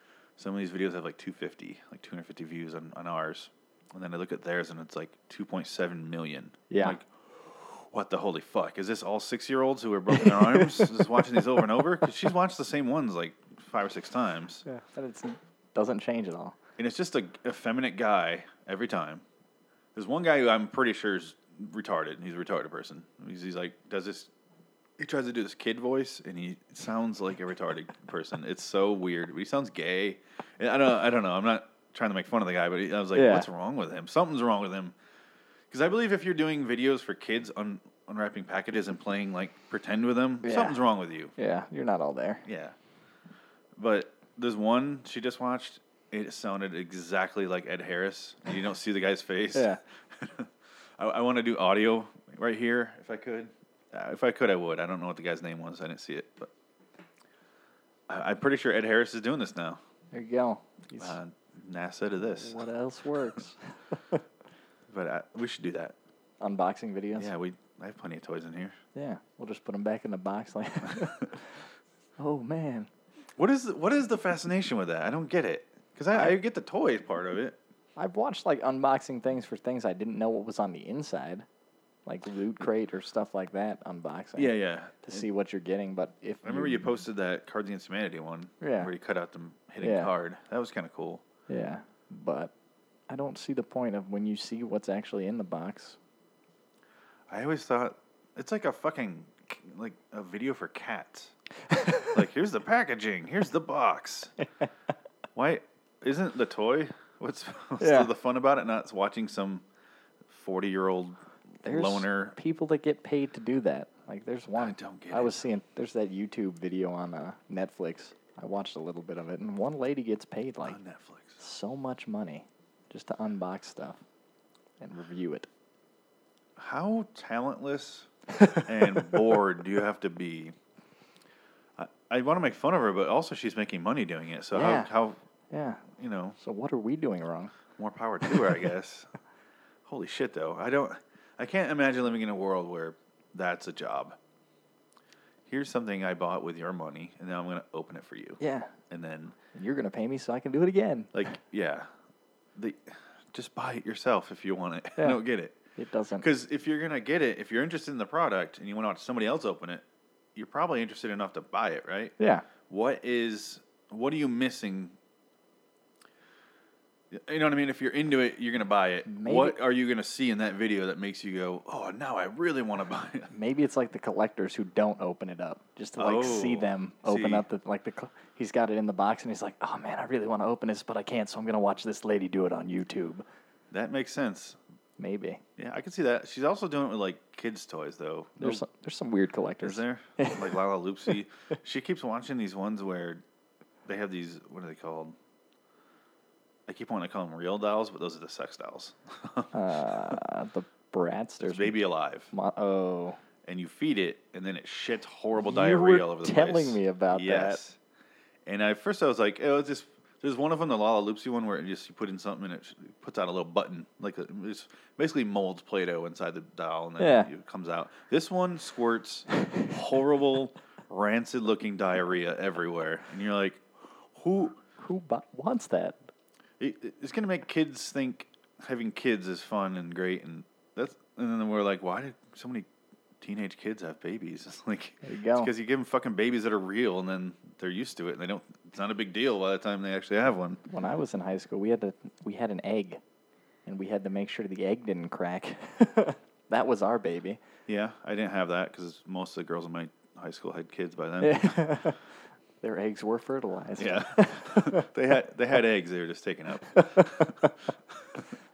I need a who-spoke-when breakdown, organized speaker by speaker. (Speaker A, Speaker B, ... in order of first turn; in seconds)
Speaker A: 0.4-14.6, 16.8-19.2, 19.9-24.3, 25.0-34.9, 35.7-41.3, 42.4-42.8, 43.8-56.5, 58.1-59.8, 61.0-62.6, 64.9-66.0, 67.2-68.8, 73.4-77.6, 84.3-85.2, 86.4-91.2, 97.3-101.3, 102.1-104.3, 105.3-109.6, 110.3-112.3, 114.6-115.4, 120.6-121.4, 126.6-130.5, 131.8-135.2, 135.9-136.4, 137.8-139.1, 139.8-144.2, 145.5-149.3, 151.1-151.9, 152.6-155.6, 156.2-159.8, 160.3-162.1, 162.7-164.9, 167.1-173.3, 176.0-177.4, 183.7-184.6, 185.6-188.6, 189.6-193.2, 193.8-195.2, 196.7-200.2, 201.4-202.3, 203.4-207.8, 208.4-224.6, 226.6-232.7, 233.2-240.6, 247.7-251.9, 253.8-258.2
Speaker B: 6.7-7.0, 10.1-11.8, 14.7-16.6, 33.1-33.5, 40.4-40.8, 41.4-42.4, 49.5-49.8, 60.1-61.2, 62.3-64.2, 66.4-67.3, 68.9-71.5, 72.2-72.9, 78.0-81.5, 82.0-86.9, 88.6-88.9, 89.8-90.1, 91.5-92.5, 93.1-96.0, 101.7-102.1, 107.8-108.1, 111.6-120.8, 121.4-124.0, 124.8-125.5, 134.5-134.9, 135.5-135.8, 136.4-137.5, 148.4-148.7, 149.5-151.1, 155.8-156.2, 162.2-162.4, 169.1-169.6, 173.3-183.2, 185.0-185.4, 188.4-190.5, 199.5-201.8, 202.3-203.2, 205.4-207.6, 217.0-217.3, 224.8-226.0, 235.0-235.5, 240.7-243.0, 243.7-247.4, 251.2-252.0, 252.6-254.9, 256.7-257.6